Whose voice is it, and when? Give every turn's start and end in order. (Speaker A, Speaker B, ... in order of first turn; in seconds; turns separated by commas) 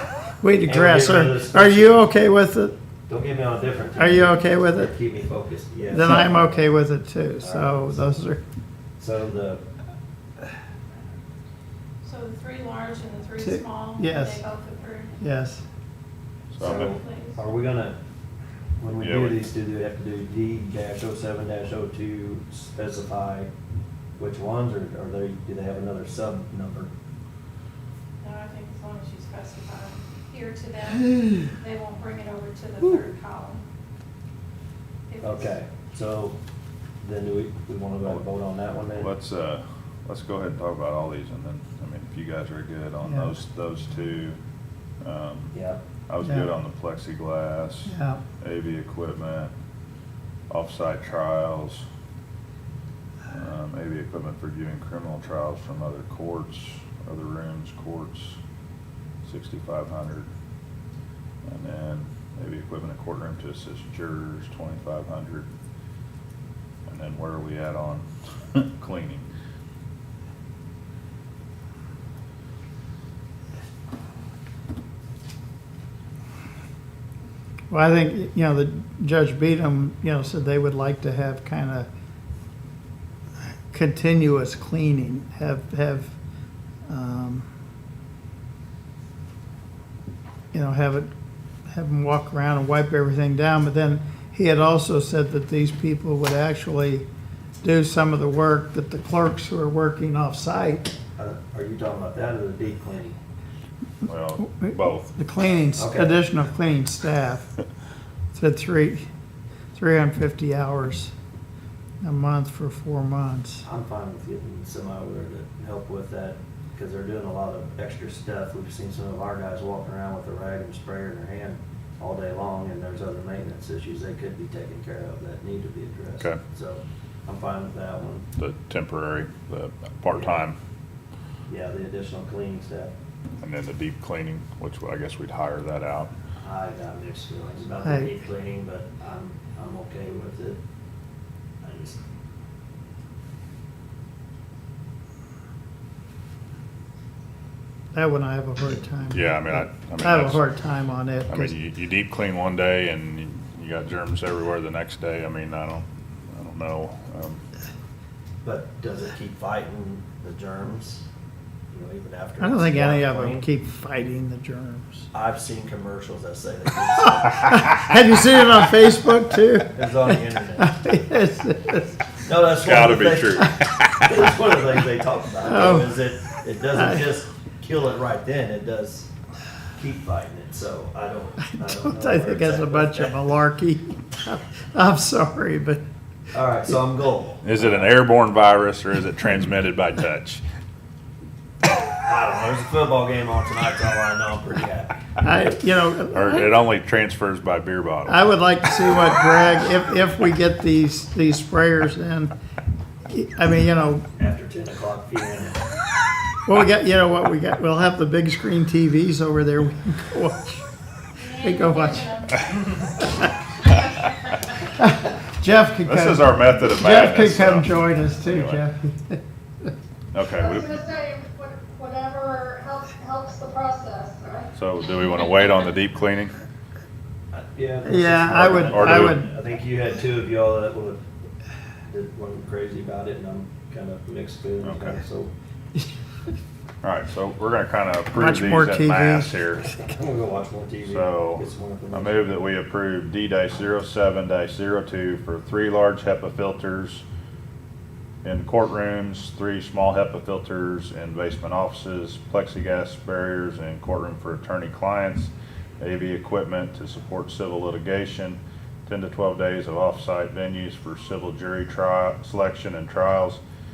Speaker A: 0.4-2.7, Speaker B: 0.6-2.0, Speaker B: 3.1-6.6, Speaker A: 4.0-4.9, Speaker A: 5.9-8.4, Speaker B: 7.4-8.2, Speaker B: 9.0-9.6, Speaker C: 12.0-15.1, Speaker A: 13.4-14.4, Speaker A: 15.2-15.6, Speaker D: 16.5-16.9, Speaker B: 16.6-18.0, Speaker C: 16.6-17.4, Speaker B: 18.8-23.5, Speaker D: 19.0-19.4, Speaker B: 24.2-26.9, Speaker C: 28.2-33.6, Speaker C: 35.1-35.5, Speaker B: 35.2-36.4, Speaker B: 37.0-39.1, Speaker D: 38.9-44.4, Speaker A: 43.0-43.3, Speaker D: 45.0-45.5, Speaker B: 45.5-45.8, Speaker D: 46.1-49.5, Speaker A: 46.2-46.5, Speaker A: 47.9-48.2, Speaker D: 50.5-51.8, Speaker D: 53.3-58.4, Speaker D: 59.2-60.3, Speaker D: 61.4-65.5, Speaker D: 66.9-69.3, Speaker A: 77.7-81.9, Speaker A: 83.7-86.1, Speaker A: 86.9-87.5, Speaker A: 90.5-91.1, Speaker A: 91.7-97.1, Speaker A: 97.6-100.9, Speaker B: 101.2-103.2, Speaker D: 104.0-105.1, Speaker A: 104.4-107.5, Speaker B: 105.8-106.2, Speaker A: 108.3-109.1, Speaker A: 109.7-111.1, Speaker A: 112.0-113.6, Speaker B: 113.6-128.3, Speaker D: 128.4-130.6, Speaker B: 130.1-130.4, Speaker B: 131.5-132.9, Speaker D: 133.4-136.1, Speaker B: 136.4-140.6, Speaker B: 141.6-142.0, Speaker A: 147.9-151.5, Speaker D: 149.1-150.4, Speaker D: 151.3-157.4, Speaker B: 158.4-161.0, Speaker B: 161.7-163.4, Speaker A: 162.4-165.1, Speaker B: 165.1-167.6, Speaker A: 167.4-172.0, Speaker B: 169.7-170.8, Speaker B: 172.2-173.5, Speaker D: 172.6-174.1, Speaker B: 174.0-179.1, Speaker A: 175.4-176.0, Speaker A: 176.7-177.1, Speaker B: 179.7-183.4, Speaker A: 181.5-185.8, Speaker B: 186.3-187.9, Speaker D: 187.4-190.4, Speaker B: 192.0-195.6, Speaker A: 195.2-196.5, Speaker D: 196.1-198.2, Speaker A: 198.1-202.3, Speaker A: 203.1-204.0, Speaker B: 204.2-205.6, Speaker A: 206.4-210.6, Speaker C: 211.2-212.7, Speaker A: 211.4-212.1, Speaker A: 214.8-219.2, Speaker D: 215.8-218.6, Speaker D: 220.1-220.9, Speaker E: 220.8-224.4, Speaker D: 224.5-226.3, Speaker B: 227.3-231.0, Speaker A: 227.8-229.3, Speaker D: 228.7-229.2, Speaker B: 231.9-235.3, Speaker D: 234.6-235.0, Speaker D: 236.8-239.6, Speaker A: 238.1-239.4, Speaker B: 239.7-242.2, Speaker D: 240.8-247.0, Speaker D: 248.2-263.4